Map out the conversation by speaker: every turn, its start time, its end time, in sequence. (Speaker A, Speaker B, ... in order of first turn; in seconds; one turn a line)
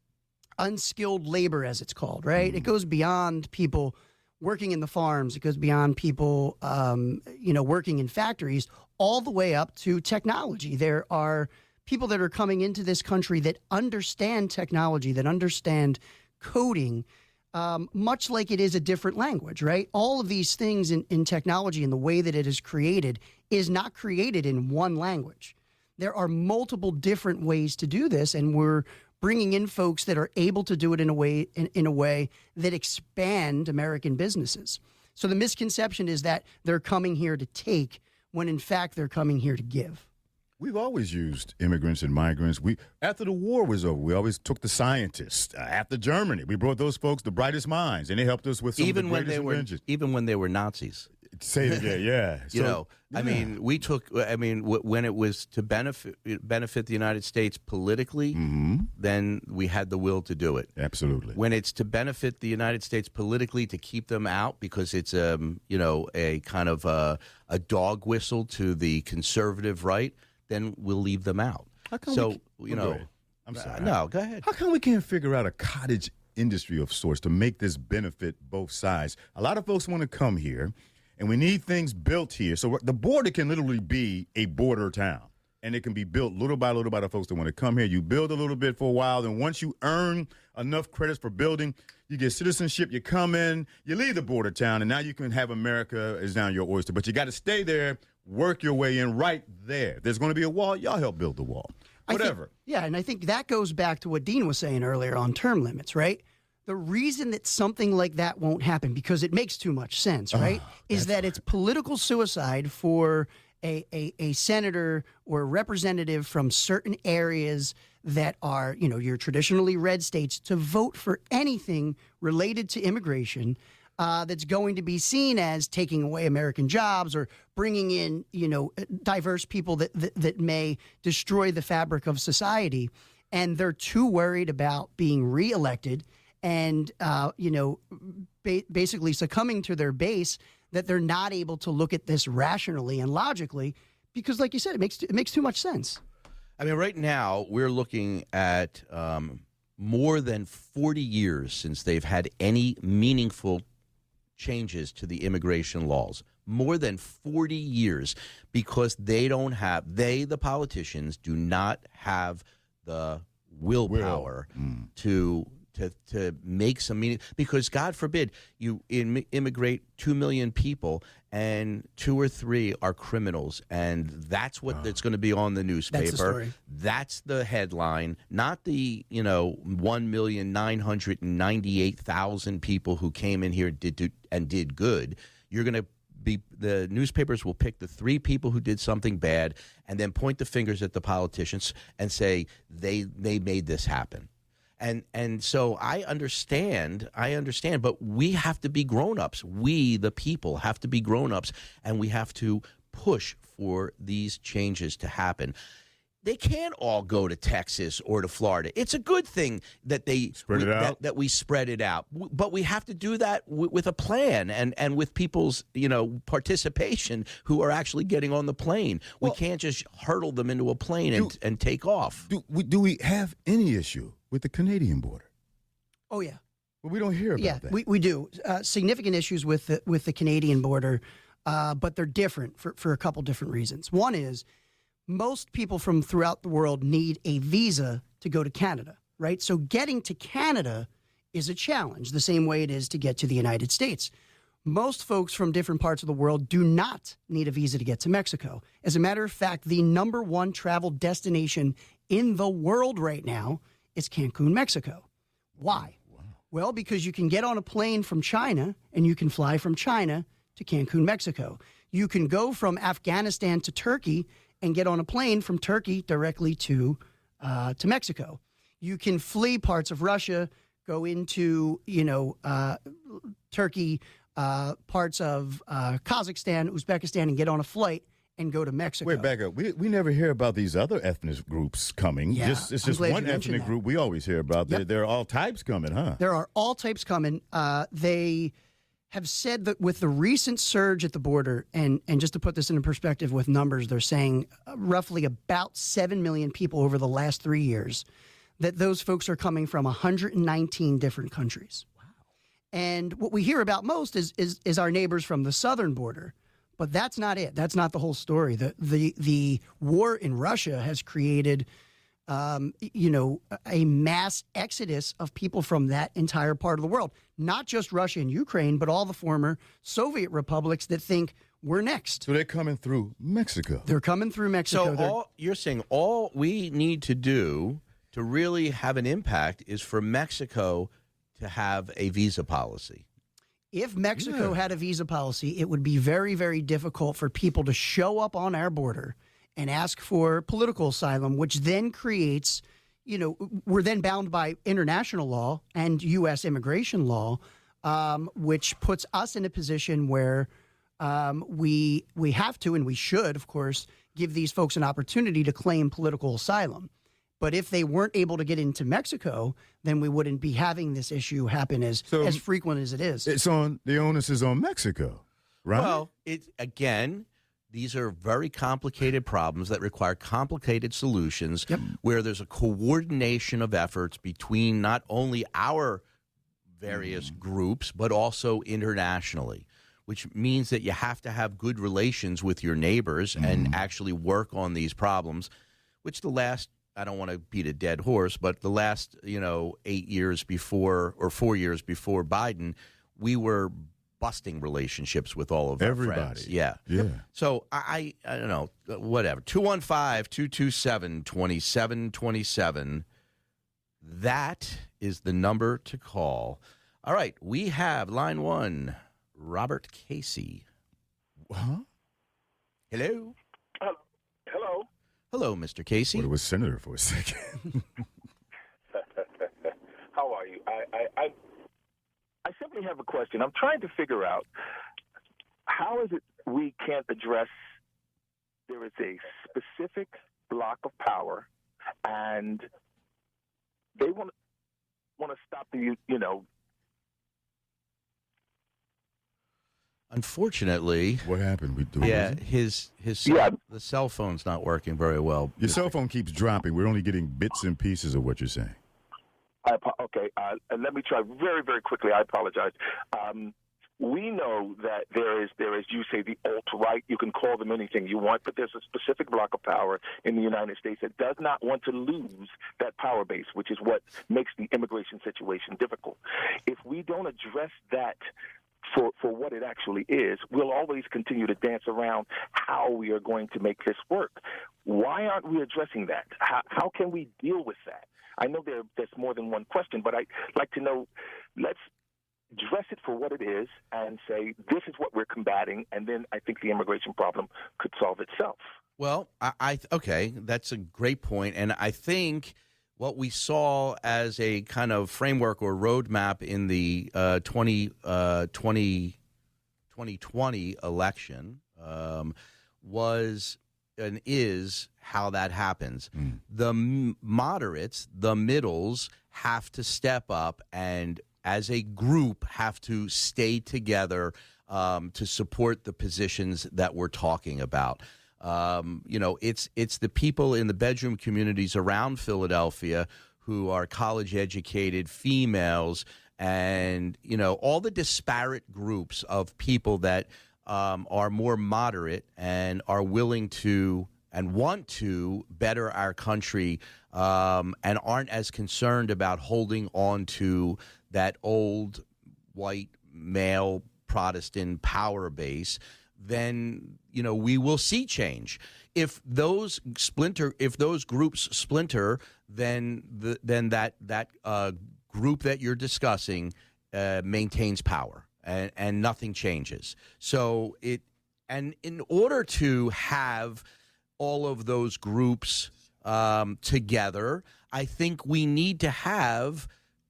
Speaker A: 0.6-40.0
Speaker B: 2.4-2.7
Speaker B: 40.6-49.8
Speaker C: 48.8-51.1
Speaker B: 51.3-53.6
Speaker C: 52.5-58.4
Speaker B: 58.3-58.9
Speaker C: 59.0-60.7
Speaker B: 60.8-61.4
Speaker C: 61.3-74.5
Speaker B: 71.9-102.5
Speaker A: 102.1-146.0
Speaker B: 110.3-111.3
Speaker C: 146.6-153.6
Speaker C: 154.4-194.3
Speaker B: 163.9-164.9
Speaker A: 175.9-176.5
Speaker C: 194.8-205.6
Speaker C: 206.2-222.2
Speaker B: 210.3-211.0
Speaker B: 222.3-225.3
Speaker A: 226.1-226.4
Speaker B: 226.8-227.8
Speaker A: 227.4-234.4
Speaker A: 235.1-244.1
Speaker A: 244.7-255.1
Speaker A: 255.6-255.9
Speaker B: 255.7-256.3
Speaker A: 256.5-279.3
Speaker B: 279.0-286.2
Speaker A: 282.3-283.7
Speaker A: 286.2-288.5
Speaker A: 289.1-298.0
Speaker A: 298.6-301.9
Speaker A: 302.7-311.7
Speaker A: 312.3-322.3
Speaker B: 322.3-323.9
Speaker A: 323.9-325.2
Speaker C: 324.7-333.1
Speaker A: 333.7-350.5
Speaker B: 334.2-334.6
Speaker A: 351.0-363.3
Speaker B: 362.1-362.4
Speaker B: 363.2-366.0
Speaker C: 365.7-376.0
Speaker C: 376.8-385.5
Speaker B: 376.9-377.3
Speaker B: 383.4-383.8
Speaker C: 386.0-403.1
Speaker B: 395.8-397.2
Speaker C: 404.0-410.6
Speaker B: 411.5-411.9
Speaker C: 412.9-413.4
Speaker D: 413.8-414.9
Speaker C: 415.3-416.3
Speaker B: 416.1-417.9
Speaker D: 419.4-421.4
Speaker D: 422.4-424.5
Speaker D: 425.7-427.5
Speaker D: 428.7-431.5
Speaker D: 432.0-432.7
Speaker D: 434.0-434.3
Speaker D: 435.2-436.5
Speaker C: 440.1-441.3
Speaker B: 441.2-442.4
Speaker C: 442.0-445.9
Speaker D: 443.3-443.6
Speaker B: 445.6-448.8
Speaker D: 449.6-468.2
Speaker D: 468.9-481.8
Speaker D: 482.5-488.6
Speaker C: 489.0-499.2
Speaker C: 499.9-563.6
Speaker C: 564.2-569.7